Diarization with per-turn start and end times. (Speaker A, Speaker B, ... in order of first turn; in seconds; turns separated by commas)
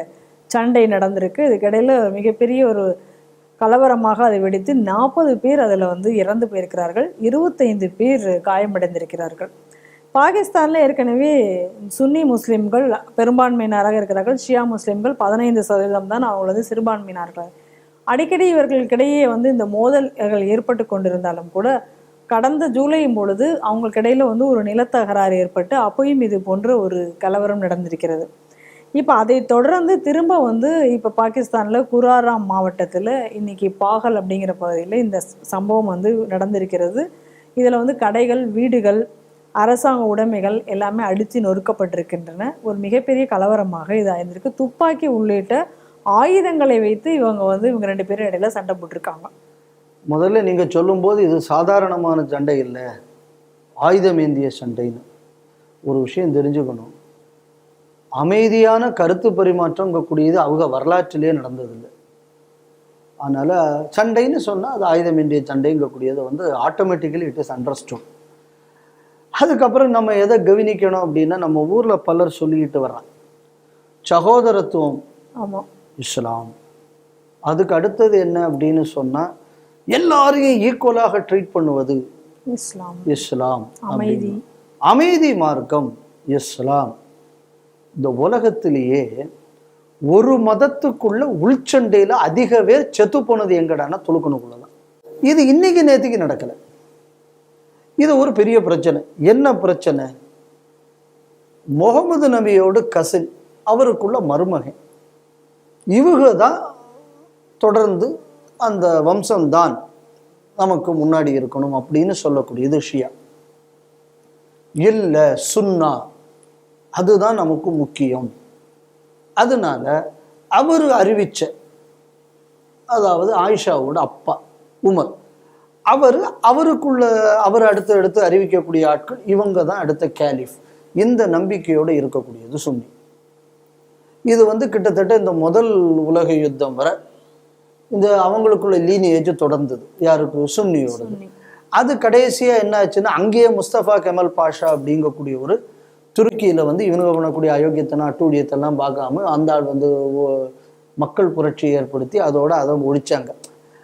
Speaker A: 0.5-2.9, Speaker A: 3.6-9.5, Speaker A: 10.2-17.5, Speaker A: 18.1-21.7, Speaker A: 22.3-28.3, Speaker A: 29.0-37.0, Speaker A: 37.6-39.0, Speaker A: 39.6-45.6, Speaker A: 46.2-49.3, Speaker B: 50.1-52.8, Speaker B: 53.9-55.0, Speaker B: 55.9-56.9, Speaker B: 58.2-61.9, Speaker B: 63.2-68.0, Speaker B: 69.4-73.1, Speaker B: 74.1-75.0, Speaker B: 76.0-76.5, Speaker B: 77.5-79.3, Speaker B: 79.9-82.0, Speaker A: 82.5-83.2, Speaker B: 83.1-84.4, Speaker A: 83.9-84.4, Speaker B: 84.9-86.9, Speaker B: 88.0-89.1, Speaker B: 90.1-94.7, Speaker B: 95.3-96.6, Speaker B: 98.0-100.1, Speaker B: 101.8-104.8, Speaker B: 106.0-106.5, Speaker B: 107.6-108.1, Speaker B: 108.6-109.8, Speaker B: 110.6-113.1, Speaker B: 114.8-116.0, Speaker B: 117.0-118.3, Speaker B: 119.4-119.9, Speaker B: 120.6-121.5, Speaker B: 122.9-125.1, Speaker B: 125.9-132.9, Speaker B: 134.3-136.9, Speaker B: 137.9-141.2, Speaker A: 140.9-141.3, Speaker B: 141.8-145.6, Speaker B: 146.2-150.5, Speaker B: 151.0-153.3